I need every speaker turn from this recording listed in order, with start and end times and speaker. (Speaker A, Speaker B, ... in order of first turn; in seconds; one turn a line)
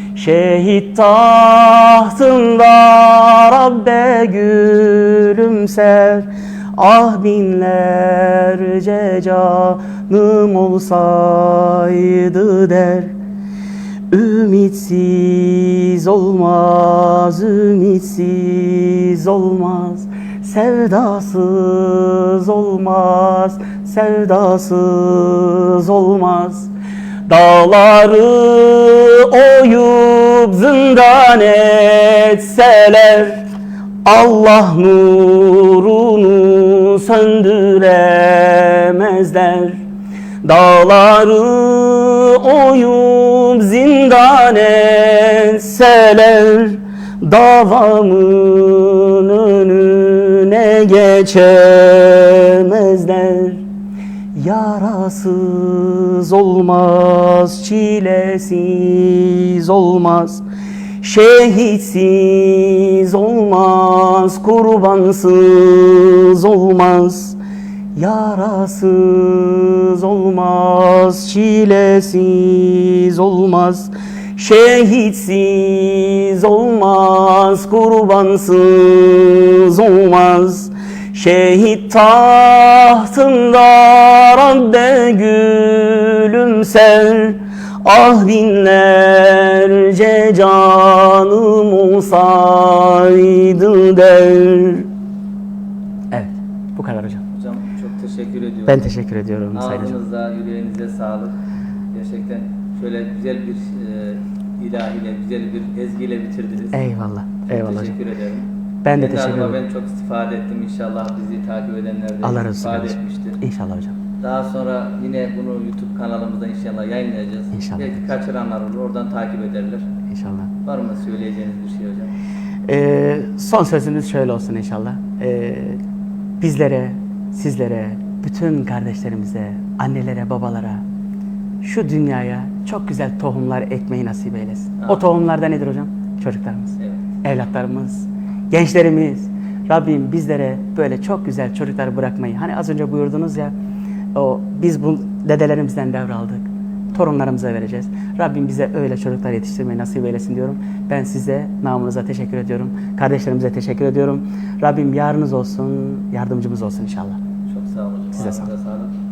Speaker A: 0.2-13.1
Speaker A: 14.1-26.7
Speaker A: 27.3-33.4
Speaker A: 34.0-39.8
Speaker A: 40.4-53.6
Speaker A: 54.4-60.4
Speaker A: 61.0-67.4
Speaker A: 68.0-94.9
Speaker A: 96.1-97.2
Speaker B: 97.3-98.9
Speaker A: 98.7-100.0
Speaker B: 99.5-101.3
Speaker B: 101.9-106.8
Speaker A: 106.7-108.0
Speaker B: 107.5-113.4
Speaker A: 108.8-109.6
Speaker A: 112.2-113.9
Speaker B: 114.2-119.8
Speaker A: 117.5-118.0
Speaker A: 120.1-120.5
Speaker B: 120.7-122.1
Speaker A: 122.7-125.8
Speaker A: 126.4-130.8
Speaker A: 131.6-143.5
Speaker B: 136.8-137.0
Speaker A: 144.2-157.2
Speaker B: 157.5-158.9
Speaker A: 158.2-158.5